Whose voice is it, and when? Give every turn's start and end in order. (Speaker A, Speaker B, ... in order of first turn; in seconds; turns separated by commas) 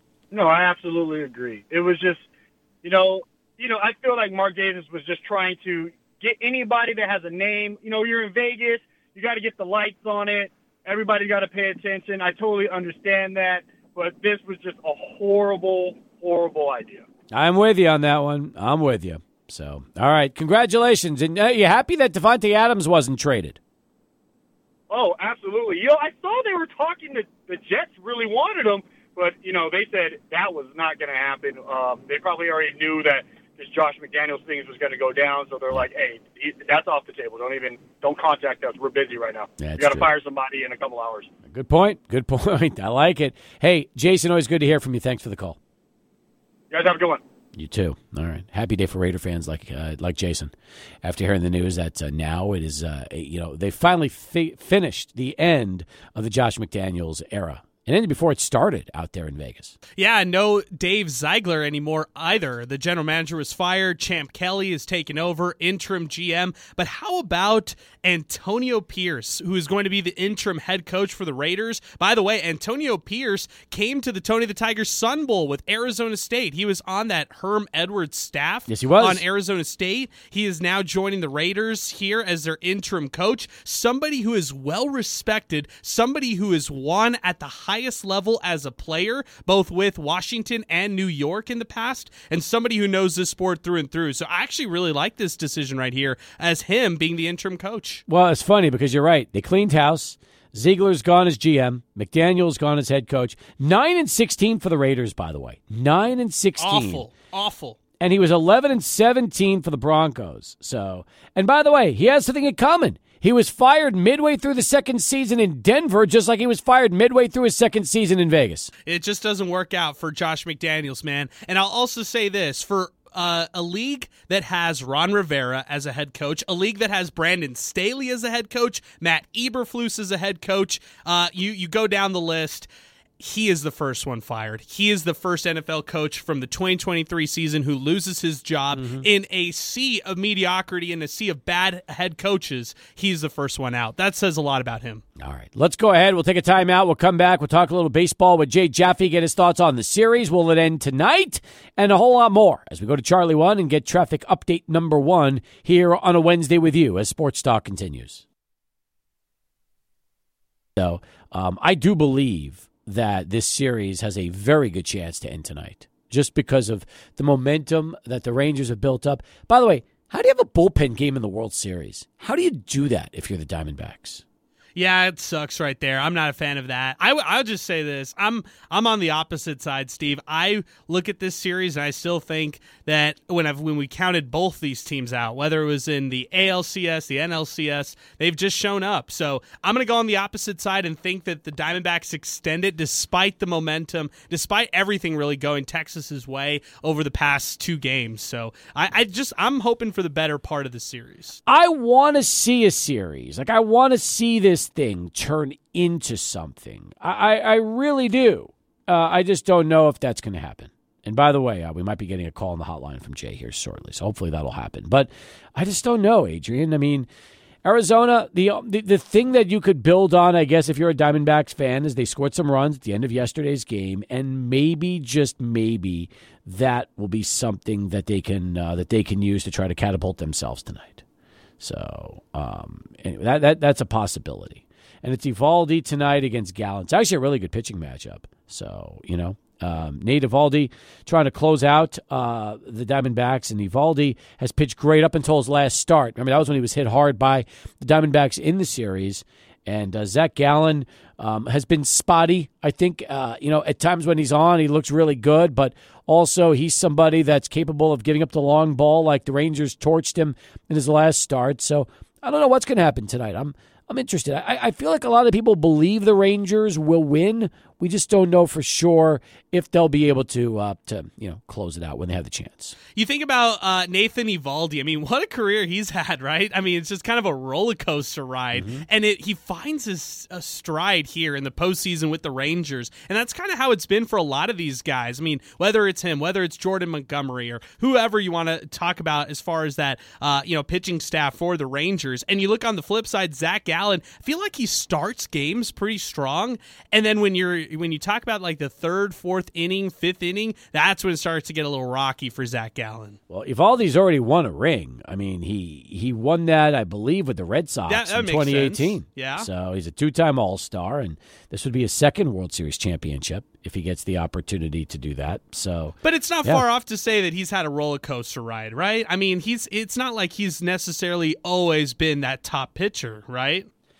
Speaker A: 0.3-2.2, Speaker A: 2.8-17.0, Speaker B: 17.3-23.6, Speaker A: 24.9-41.3, Speaker B: 39.6-40.1, Speaker B: 41.5-45.6, Speaker A: 46.7-47.2, Speaker B: 47.5-59.8, Speaker C: 60.0-98.0, Speaker B: 78.7-79.2, Speaker B: 98.1-107.0, Speaker C: 106.6-107.8, Speaker B: 108.0-118.7, Speaker C: 118.9-132.7, Speaker C: 133.2-145.0, Speaker B: 138.7-139.0, Speaker B: 145.2-158.2, Speaker B: 160.8-174.2, Speaker C: 174.8-201.4, Speaker B: 201.4-217.1, Speaker B: 217.6-231.0, Speaker B: 231.6-272.8, Speaker C: 272.9-303.2, Speaker B: 278.5-278.9, Speaker B: 303.3-316.6, Speaker C: 307.9-309.5, Speaker C: 316.0-323.7